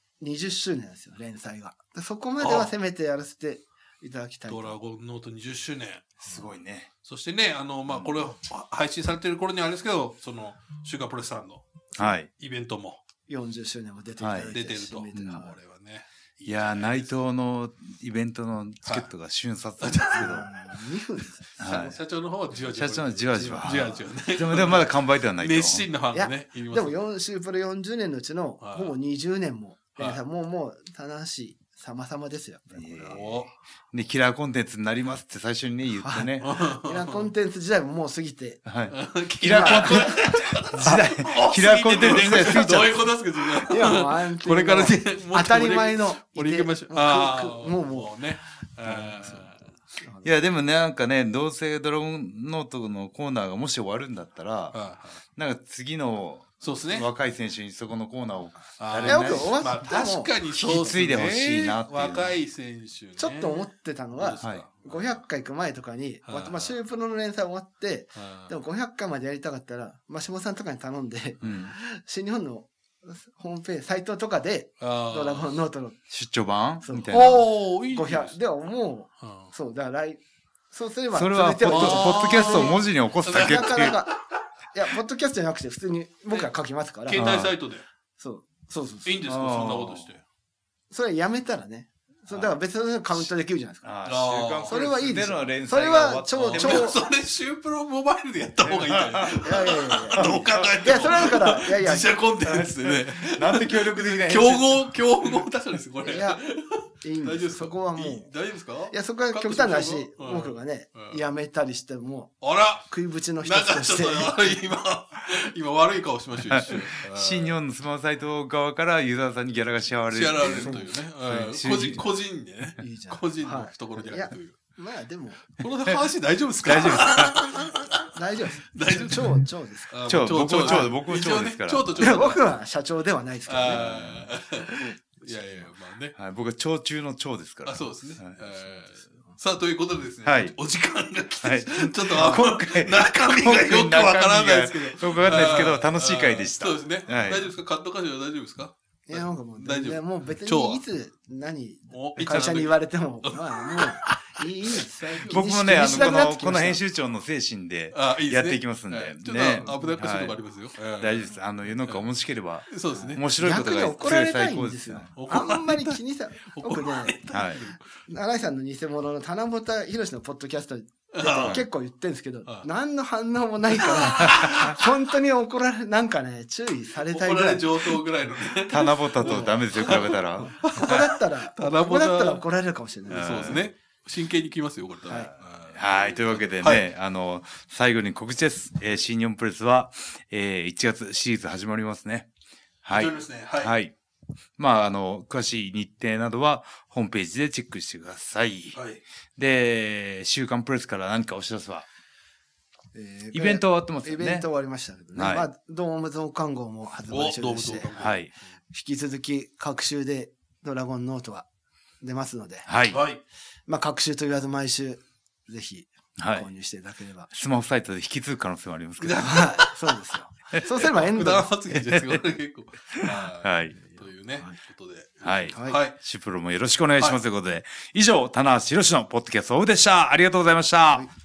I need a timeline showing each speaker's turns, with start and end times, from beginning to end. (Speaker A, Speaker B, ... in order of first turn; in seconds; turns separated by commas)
Speaker A: 0.2-4.8, Speaker B: 2.4-2.7, Speaker B: 4.5-6.2, Speaker C: 6.2-6.9, Speaker B: 7.0-13.0, Speaker C: 12.0-12.3, Speaker A: 13.3-15.6, Speaker C: 14.2-14.6, Speaker B: 14.5-17.1, Speaker C: 15.1-15.4, Speaker C: 16.5-20.5, Speaker B: 18.8-19.1, Speaker B: 19.8-20.5, Speaker A: 20.1-22.0, Speaker B: 21.6-27.0, Speaker C: 21.6-22.0, Speaker C: 22.6-25.9, Speaker A: 23.4-24.1, Speaker A: 26.1-33.2, Speaker B: 28.6-28.9, Speaker C: 32.8-36.5, Speaker B: 33.1-33.5, Speaker A: 36.0-38.6, Speaker B: 36.4-37.3, Speaker C: 38.7-43.1, Speaker B: 38.9-49.6, Speaker A: 39.4-40.2, Speaker A: 43.6-48.2, Speaker A: 50.0-50.3, Speaker C: 50.2-54.8, Speaker B: 54.7-55.2, Speaker C: 55.4-59.6, Speaker B: 56.6-57.1, Speaker B: 58.8-65.2, Speaker A: 59.0-61.0, Speaker C: 60.5-62.4, Speaker A: 63.2-76.0, Speaker C: 64.4-64.7, Speaker B: 66.2-66.8, Speaker B: 68.2-68.5, Speaker C: 71.4-71.8, Speaker B: 74.8-75.6, Speaker C: 76.1-77.4, Speaker A: 76.8-80.2, Speaker B: 77.1-78.3, Speaker B: 79.2-79.5, Speaker A: 80.7-82.8, Speaker C: 81.1-84.0, Speaker B: 81.7-84.2, Speaker A: 83.3-84.2, Speaker A: 84.7-87.4, Speaker B: 87.0-87.8, Speaker C: 87.2-87.5, Speaker A: 88.2-89.2, Speaker B: 89.1-90.2, Speaker C: 89.2-90.1, Speaker A: 90.9-93.8, Speaker C: 92.3-92.6, Speaker C: 93.8-96.9, Speaker B: 94.0-94.8, Speaker A: 94.7-97.0, Speaker B: 96.4-111.2, Speaker C: 98.6-99.6, Speaker A: 99.4-102.1, Speaker C: 100.2-101.3, Speaker C: 102.4-105.0, Speaker A: 106.0-106.4, Speaker A: 107.0-108.3, Speaker A: 108.9-112.3, Speaker B: 112.4-117.6, Speaker A: 112.9-114.5, Speaker C: 116.4-122.1, Speaker B: 120.1-124.6, Speaker A: 120.6-120.9, Speaker A: 122.8-125.5, Speaker B: 125.6-128.1, Speaker C: 126.7-127.4, Speaker A: 128.1-130.9, Speaker B: 128.7-129.4, Speaker B: 129.9-132.4, Speaker C: 130.1-132.2, Speaker A: 132.0-134.0, Speaker B: 133.5-136.2, Speaker C: 133.7-134.3, Speaker C: 136.2-138.4, Speaker B: 137.7-150.8, Speaker C: 140.2-140.6, Speaker C: 141.4-147.5, Speaker A: 149.1-156.8, Speaker B: 151.9-156.0, Speaker C: 152.2-152.6, Speaker C: 155.3-160.4, Speaker B: 157.9-161.3, Speaker A: 159.6-159.9, Speaker C: 161.0-165.1, Speaker B: 162.7-163.2, Speaker A: 162.9-167.2, Speaker B: 165.2-167.8, Speaker C: 167.3-167.6, Speaker A: 168.1-178.0, Speaker B: 171.1-171.6, Speaker C: 171.4-171.6, Speaker B: 173.7-174.9, Speaker B: 177.1-182.4, Speaker C: 178.7-180.9, Speaker A: 179.2-179.5, Speaker A: 180.4-183.6, Speaker B: 183.1-186.9, Speaker C: 183.1-183.7, Speaker A: 185.1-185.3, Speaker C: 185.7-192.3, Speaker C: 192.8-193.9, Speaker B: 192.9-193.7, Speaker C: 194.6-198.8, Speaker B: 198.7-199.0, Speaker C: 199.4-201.9, Speaker A: 202.9-207.9, Speaker C: 203.3-204.5, Speaker C: 205.2-205.5, Speaker B: 207.1-208.4, Speaker C: 207.9-208.3, Speaker A: 208.7-211.5, Speaker A: 212.0-212.7, Speaker C: 212.7-213.0, Speaker B: 212.9-213.2, Speaker A: 213.7-217.3, Speaker C: 216.2-216.5, Speaker C: 217.3-219.4, Speaker B: 219.0-219.9, Speaker A: 219.2-221.6, Speaker B: 220.7-226.0, Speaker C: 221.7-222.3, Speaker C: 222.9-223.8, Speaker C: 225.2-231.1, Speaker A: 225.5-225.8